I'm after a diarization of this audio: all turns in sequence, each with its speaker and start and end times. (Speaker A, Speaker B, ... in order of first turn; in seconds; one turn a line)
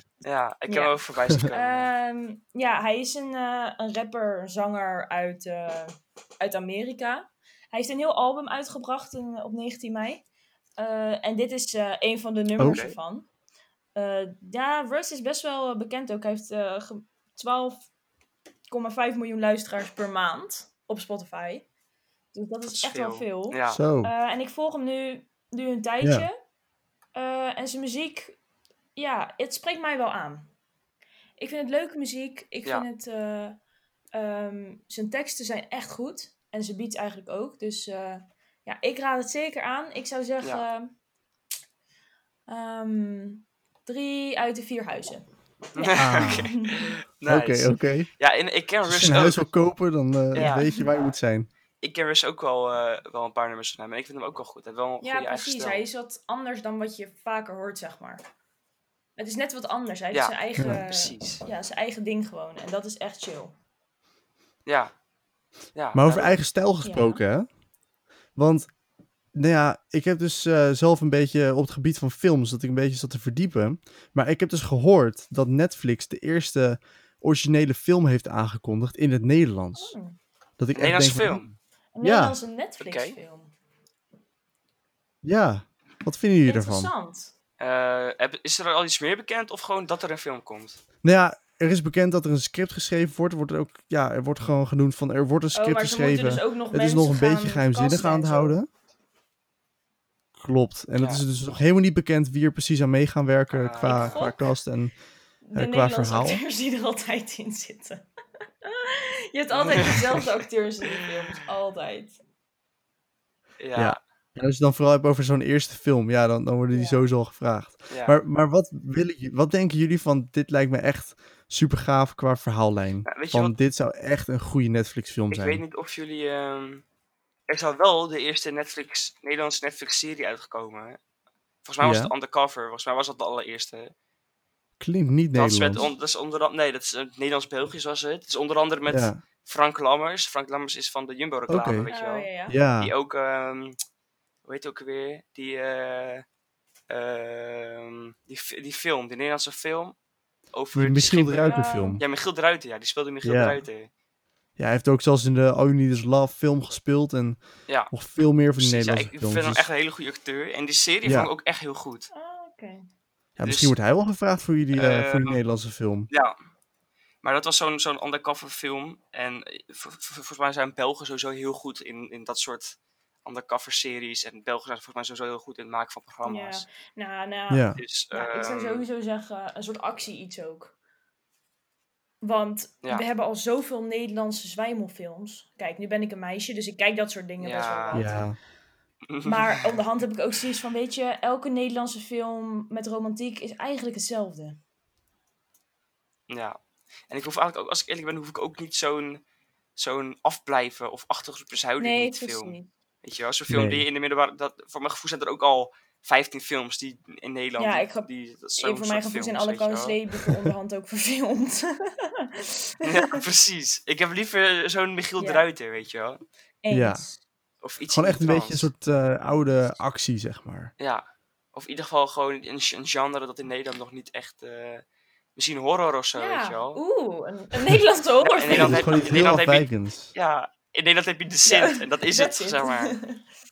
Speaker A: 0.2-1.9
Speaker B: 0.7-10.2
Speaker B: 10.8-13.3
Speaker A: 12.6-13.0
Speaker B: 13.9-17.8
Speaker B: 18.7-21.6
Speaker B: 22.3-26.3
Speaker A: 22.7-23.8
Speaker C: 23.7-24.1
Speaker C: 26.0-26.3
Speaker B: 27.1-28.4
Speaker B: 29.0-30.5
Speaker B: 31.4-33.6
Speaker B: 34.1-41.0
Speaker B: 42.5-46.9
Speaker A: 45.8-49.4
Speaker C: 46.0-46.5
Speaker C: 47.3-48.1
Speaker C: 48.9-51.5
Speaker A: 50.3-50.6
Speaker B: 50.4-50.9
Speaker A: 51.8-55.9
Speaker B: 55.0-58.2
Speaker B: 59.2-63.5
Speaker A: 60.1-61.4
Speaker A: 64.7-64.9
Speaker A: 65.8-66.4
Speaker C: 66.0-67.5
Speaker B: 66.8-67.2
Speaker C: 68.4-68.7
Speaker C: 69.3-80.0
Speaker B: 79.8-80.2
Speaker C: 80.6-81.4
Speaker A: 80.8-81.5
Speaker B: 82.0-83.5
Speaker C: 82.0-82.4
Speaker A: 82.8-83.2
Speaker C: 85.2-86.9
Speaker B: 86.5-87.3
Speaker A: 87.6-90.8
Speaker C: 91.0-98.7
Speaker B: 95.5-98.6
Speaker C: 100.4-105.0
Speaker A: 101.0-101.2
Speaker A: 103.5-104.3
Speaker B: 103.8-104.4
Speaker B: 105.5-108.1
Speaker C: 105.5-106.4
Speaker B: 108.6-112.2
Speaker A: 109.5-110.2
Speaker A: 113.6-114.0
Speaker C: 113.8-125.6
Speaker B: 116.7-117.1
Speaker A: 117.9-118.2
Speaker A: 123.1-123.5
Speaker A: 125.3-126.8
Speaker A: 127.5-131.0
Speaker A: 131.6-133.9
Speaker C: 131.8-132.1
Speaker C: 134.8-135.9
Speaker A: 135.3-143.8
Speaker C: 138.9-139.2
Speaker C: 141.5-141.9
Speaker B: 141.9-142.6
Speaker C: 142.5-142.9
Speaker A: 144.4-146.2
Speaker A: 146.9-149.9
Speaker A: 150.5-153.9
Speaker C: 150.8-152.0
Speaker B: 151.4-152.0
Speaker C: 153.2-153.6
Speaker C: 154.6-159.7
Speaker A: 158.6-162.1
Speaker C: 161.0-161.3
Speaker B: 162.1-162.9
Speaker C: 163.4-166.1
Speaker A: 163.4-163.7
Speaker A: 164.7-165.4
Speaker A: 166.1-166.3
Speaker A: 167.2-176.7
Speaker B: 176.2-180.7
Speaker C: 177.5-177.8
Speaker A: 177.8-178.8
Speaker B: 182.2-188.3
Speaker A: 187.4-188.1
Speaker C: 187.9-188.4
Speaker A: 189.1-189.7
Speaker B: 189.2-194.6
Speaker A: 196.3-196.6
Speaker A: 197.1-199.2
Speaker A: 199.8-210.0
Speaker B: 201.8-202.7
Speaker C: 203.5-203.8
Speaker B: 207.6-208.1
Speaker B: 208.6-212.9
Speaker A: 212.8-216.2
Speaker B: 215.2-215.4
Speaker B: 216.6-217.2
Speaker C: 216.7-217.0
Speaker A: 217.6-218.7
Speaker C: 217.9-220.7
Speaker A: 220.8-224.8
Speaker A: 225.4-226.8
Speaker B: 226.2-229.1
Speaker A: 228.2-233.0
Speaker C: 228.5-230.1
Speaker B: 231.4-233.2